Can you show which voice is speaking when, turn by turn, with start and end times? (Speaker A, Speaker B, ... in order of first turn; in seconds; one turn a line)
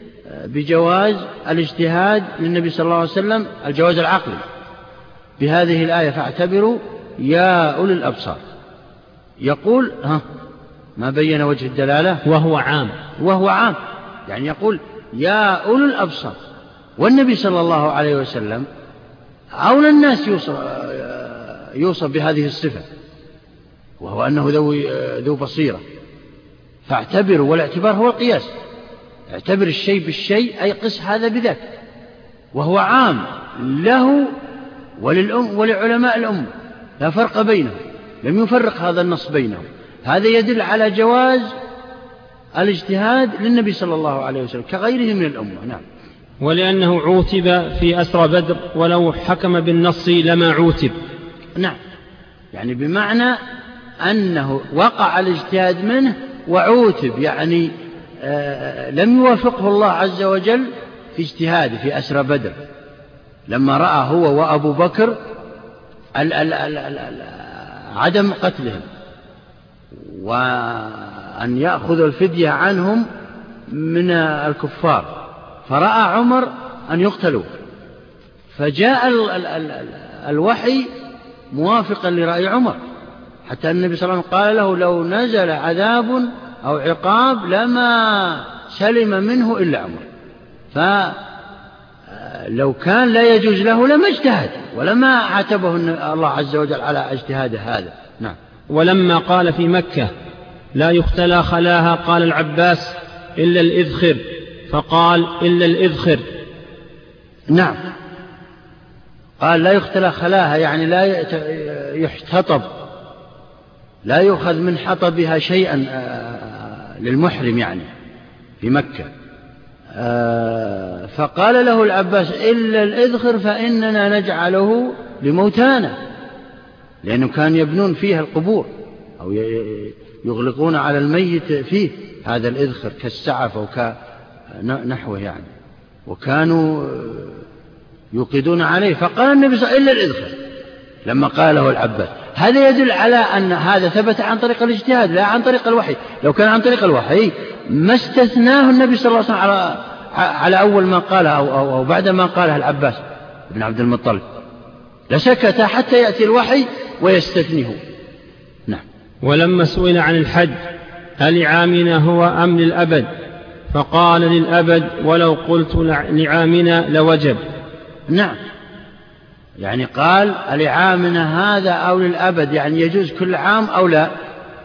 Speaker A: 0.3-4.4
Speaker A: 5.4-8.4
Speaker A: 9.4-10.2
Speaker A: 11.0-12.2
Speaker B: 12.2-13.0
Speaker A: 13.2-16.4
Speaker A: 17.0-18.7
Speaker A: 19.6-22.9
Speaker A: 24.0-25.8
Speaker A: 26.9-28.5
Speaker A: 29.3-31.6
Speaker A: 32.5-34.3
Speaker A: 35.0-41.5
Speaker A: 42.6-45.8
Speaker B: 46.4-51.0
Speaker A: 52.5-53.4
Speaker A: 54.0-62.6
Speaker A: 63.5-65.2
Speaker A: 66.2-68.8
Speaker A: 70.1-73.1
Speaker A: 73.7-75.1
Speaker A: 75.7-77.5
Speaker A: 78.5-80.9
Speaker A: 81.5-82.8
Speaker A: 83.5-90.1
Speaker A: 90.7-91.2
Speaker A: 92.1-98.4
Speaker B: 98.7-100.1
Speaker B: 100.7-106.3
Speaker A: 107.5-107.8
Speaker A: 109.4-112.7
Speaker A: 114.1-117.9
Speaker A: 118.6-119.1
Speaker A: 120.0-126.0
Speaker A: 127.0-133.9
Speaker A: 134.6-135.5
Speaker A: 136.1-137.4
Speaker A: 138.1-140.4
Speaker A: 141.1-154.2
Speaker A: 155.1-157.8
Speaker B: 159.2-160.6
Speaker B: 161.2-163.1
Speaker B: 163.7-167.4
Speaker A: 168.1-168.4
Speaker A: 169.6-174.1